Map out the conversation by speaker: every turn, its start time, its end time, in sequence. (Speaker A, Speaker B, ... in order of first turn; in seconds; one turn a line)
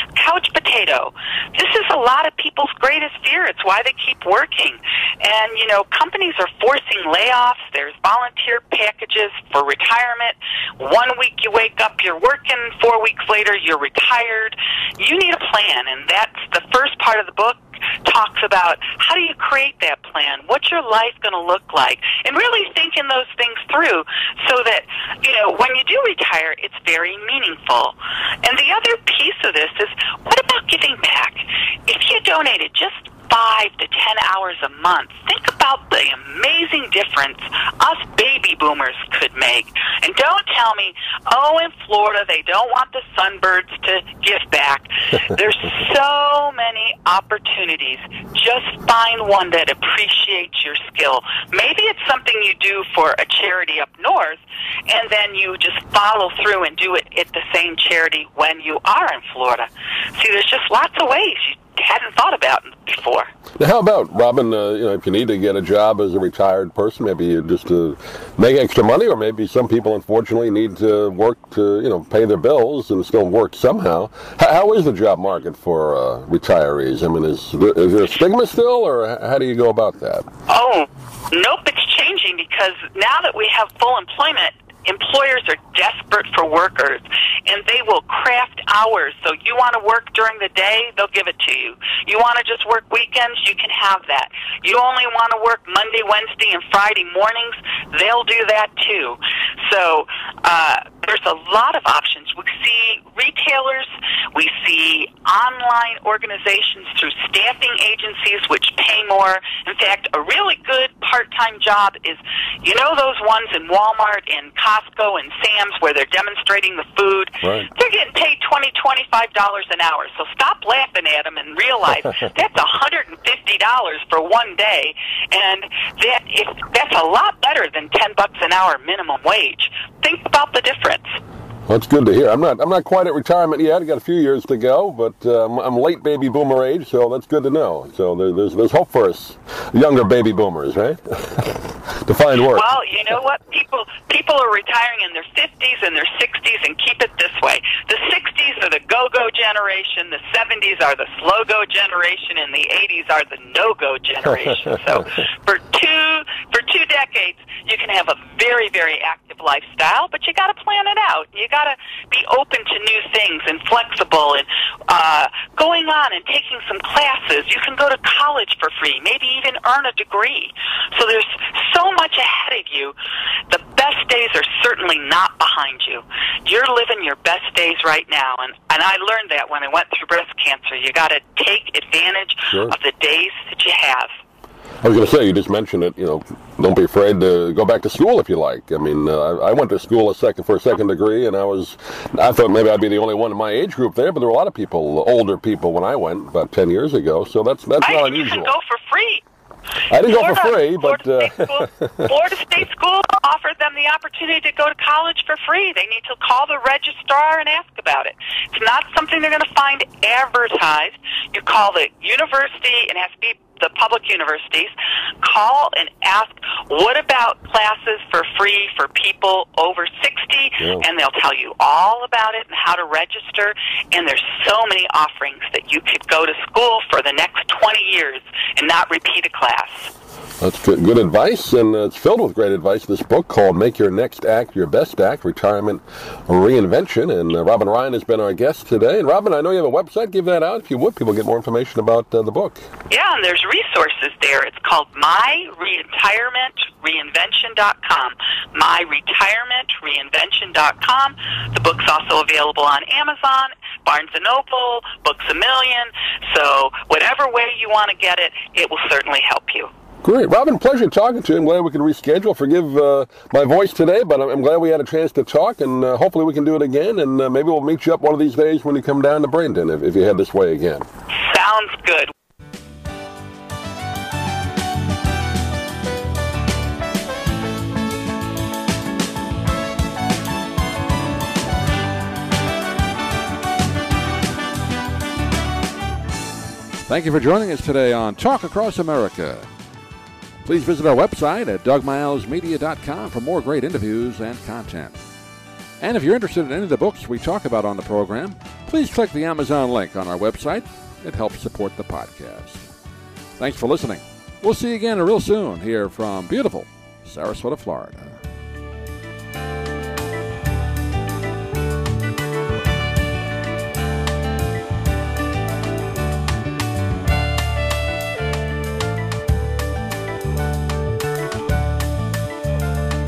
Speaker A: 0.1-63.3
Speaker B: 63.6-80.3
Speaker A: 80.5-131.2
Speaker B: 117.4-117.7
Speaker B: 131.7-142.7
Speaker A: 142.4-172.9
Speaker A: 173.5-184.1
Speaker B: 184.8-198.5
Speaker A: 197.8-199.2
Speaker B: 199.9-202.1
Speaker A: 200.0-229.9
Speaker B: 220.6-220.8
Speaker B: 230.4-242.6
Speaker A: 242.9-259.7
Speaker B: 260.0-270.9
Speaker A: 271.2-272.1
Speaker C: 286.9-289.5
Speaker C: 290.4-295.0
Speaker C: 295.8-302.6
Speaker C: 303.4-308.2